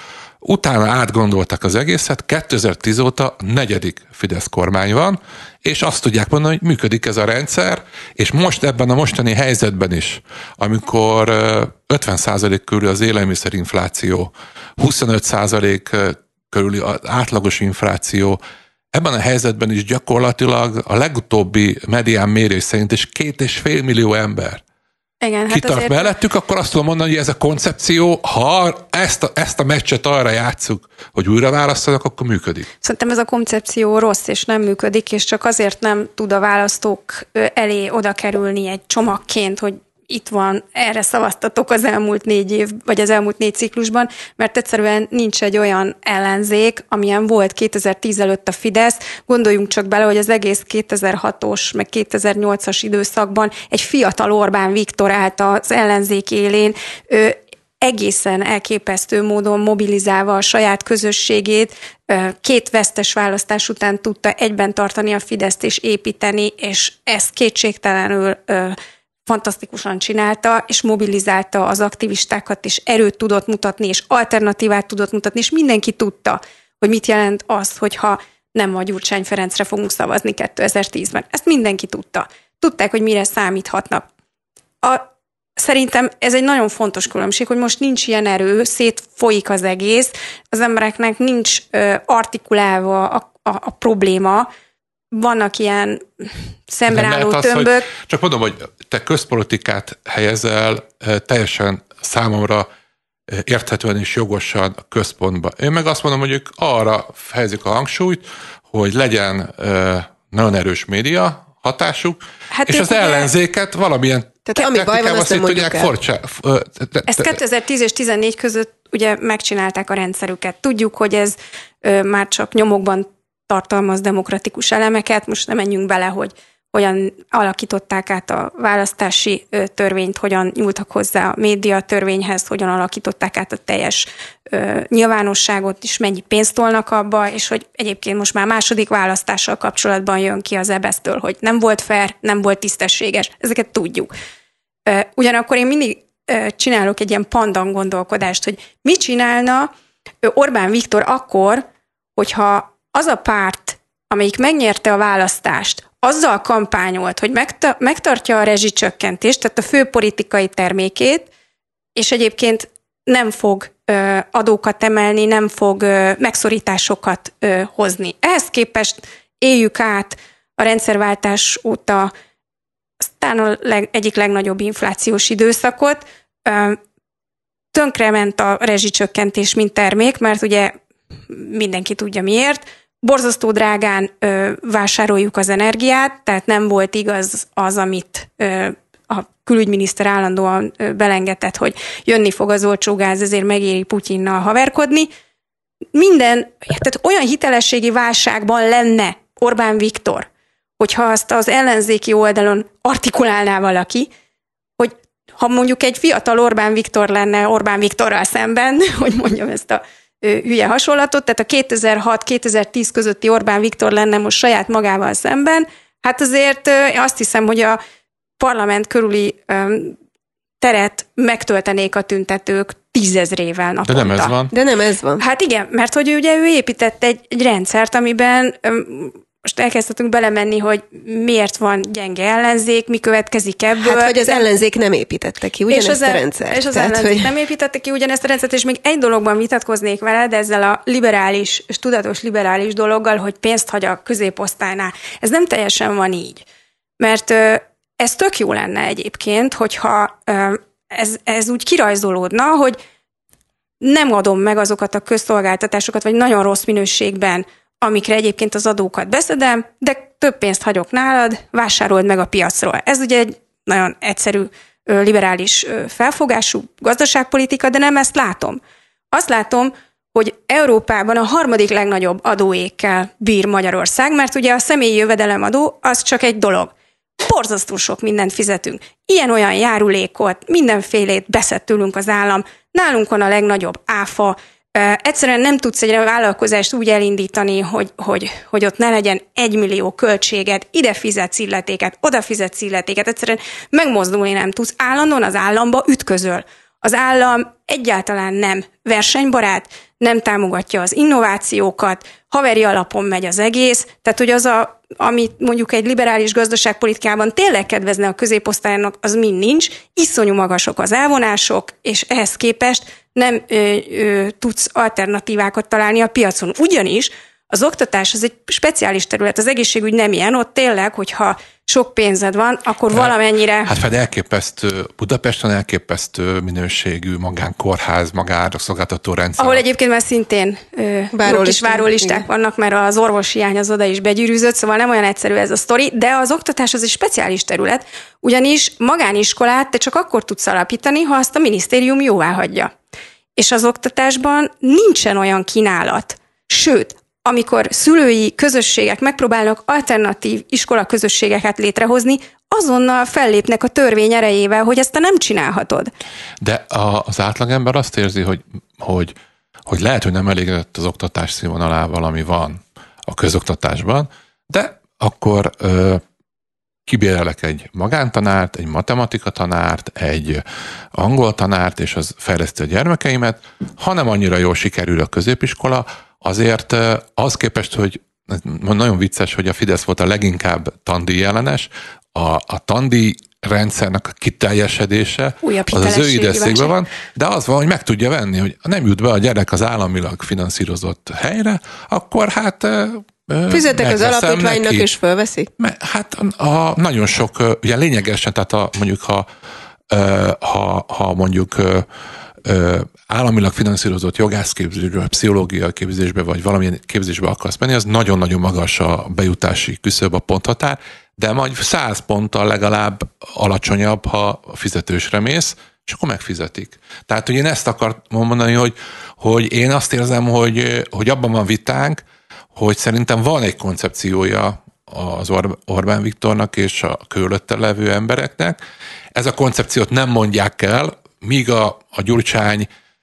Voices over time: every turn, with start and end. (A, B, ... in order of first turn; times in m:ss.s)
0:00.4-0:18.4 A
0:18.9-0:24.6 A
0:25.2-0:26.1 B
0:25.5-0:32.7 A
0:32.8-1:24.0 B
1:24.8-1:34.5 B
1:35.1-1:37.9 B
1:36.9-1:42.7 A
1:43.3-1:57.4 A
1:52.5-1:53.3 B
1:54.5-1:55.9 C
1:57.1-2:24.1 B
2:24.9-2:29.7 B
2:30.2-2:31.6 B
2:32.2-2:41.3 B
2:41.9-2:52.1 B
2:53.0-2:56.8 B
2:57.7-3:00.7 B
3:01.3-3:15.1 B
3:15.9-3:20.3 B
3:20.8-3:24.1 B
3:24.8-3:37.8 B
3:38.4-3:40.0 B
3:40.6-3:44.3 B
3:43.8-3:44.5 A
3:44.5-3:45.2 C
3:45.2-3:54.4 B
3:53.8-3:57.3 C
3:55.7-4:06.4 B
4:07.0-4:12.8 B
4:13.8-4:28.6 B
4:29.1-5:23.8 B
5:23.6-5:29.6 A
5:29.4-5:42.7 B
5:31.1-5:32.2 C
5:43.4-5:55.9 B
5:56.4-5:59.1 A
5:59.6-6:06.0 A
6:06.9-6:34.9 A
6:25.4-6:26.7 B
6:33.5-6:35.5 C
6:35.6-6:39.3 A
6:39.9-6:41.9 A
6:42.4-7:02.0 A
7:02.6-7:08.6 A
7:09.1-7:12.7 A